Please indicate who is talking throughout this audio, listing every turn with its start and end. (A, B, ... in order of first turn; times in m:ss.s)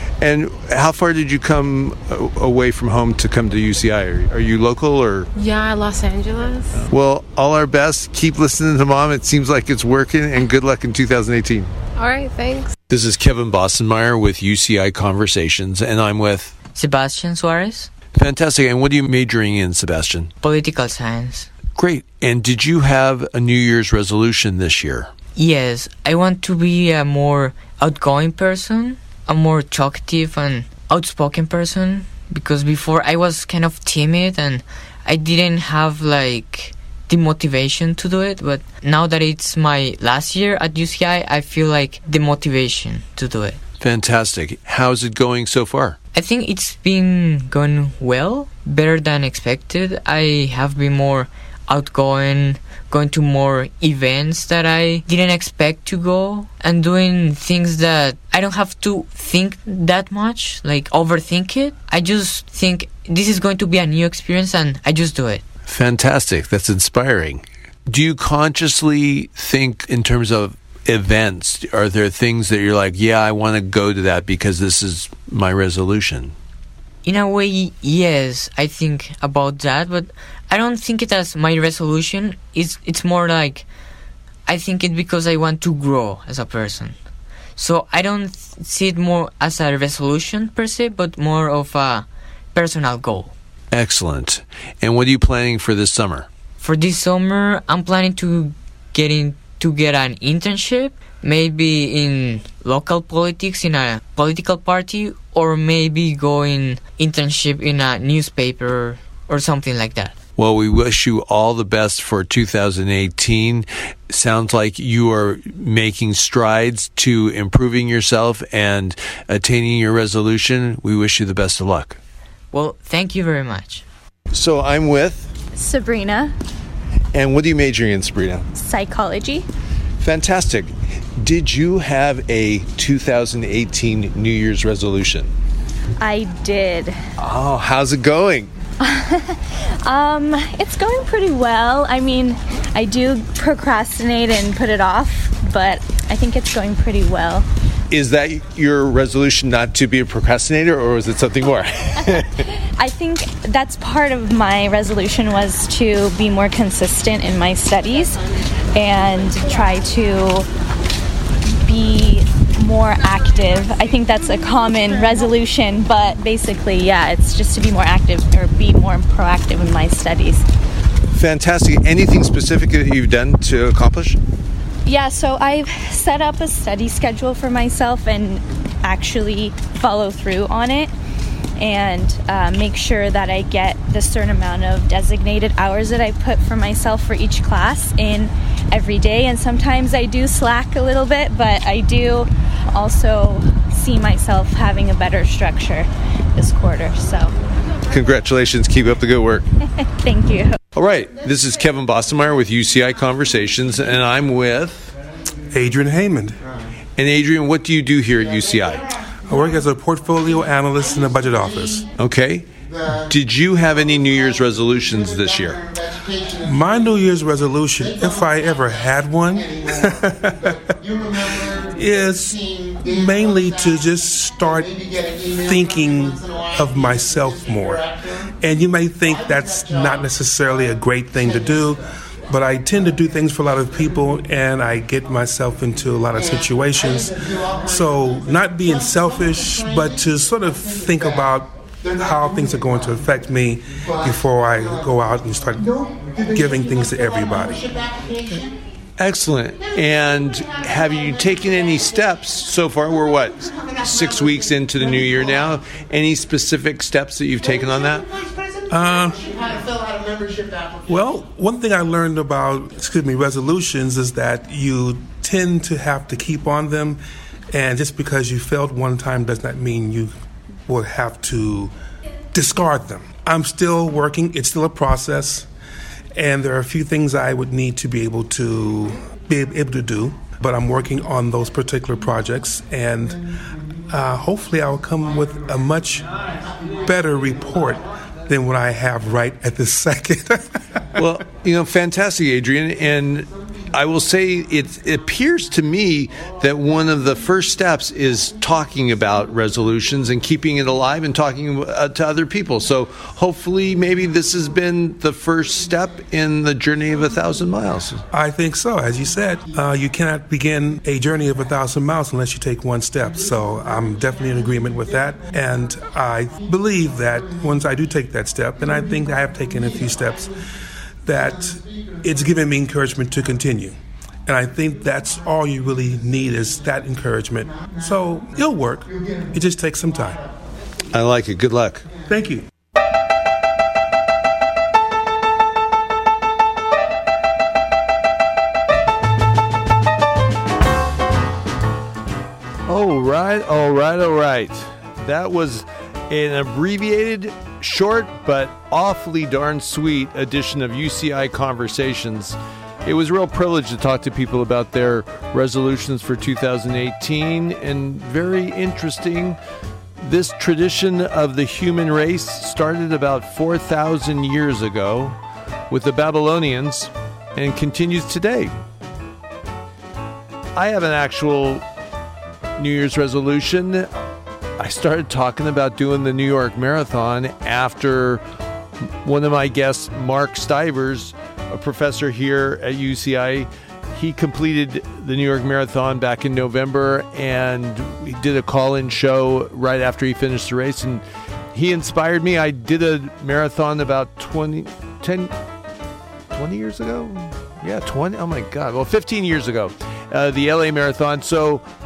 0:00.2-0:05.3 A
0:05.4-0:06.9 B
0:06.8-0:11.7 A
0:12.0-0:12.7 B
0:12.9-0:16.5 A
0:16.7-0:17.9 C
0:18.1-0:20.3 A
0:20.4-0:21.5 C
0:21.8-0:25.1 A
0:25.4-0:43.6 C
0:43.8-0:46.0 A
0:46.1-1:05.4 C
1:05.6-1:16.3 A
1:17.0-1:23.7 C
1:24.5-1:26.9 C
1:27.6-1:33.3 C
1:33.7-1:36.3 A
1:36.6-1:50.1 C
1:50.4-2:02.0 A
2:02.5-2:03.8 C
2:04.3-2:05.3 A
2:05.5-2:06.3 D
2:07.1-2:08.5 A
2:08.5-2:09.5 D
2:10.0-2:15.3 A
2:16.0-2:17.0 D
2:17.2-2:18.5 A
2:18.8-2:27.5 D
2:27.9-2:32.5 A
2:32.8-2:38.2 D
2:38.7-2:40.5 D
2:41.6-2:50.4 D
2:51.1-2:54.2 A
2:54.8-3:00.9 D
3:01.6-3:17.3 D
3:17.9-3:19.4 A
3:19.8-3:20.6 D
3:20.7-3:24.9 A
3:25.5-3:26.4 E
3:27.0-3:28.9 A
3:29.3-3:31.8 E
3:32.0-3:35.7 A
3:36.4-3:40.6 E
3:41.7-3:44.8 E
3:45.4-3:47.9 E
3:48.4-4:05.7 E
4:06.3-4:07.7 E
4:09.0-4:18.1 A
4:18.7-4:19.3 E
4:20.8-4:27.0 E
4:27.5-4:30.1 E
4:30.7-4:31.7 E
4:32.3-4:35.5 E
4:36.1-4:43.2 E
4:43.9-4:46.1 E
4:46.8-4:50.4 E
4:51.0-5:08.0 A
5:08.1-5:20.3 E
5:21.0-5:23.7 E
5:24.2-5:30.2 E
5:30.9-5:31.8 A
5:32.1-5:32.4 E
5:42.7-5:59.4 A
6:00.0-6:05.2 A
6:05.7-6:08.5 A
6:10.5-6:11.6 A
6:12.6-6:13.9 A
6:14.6-6:18.2 A
6:19.0-6:35.3 A
6:36.3-6:41.6 A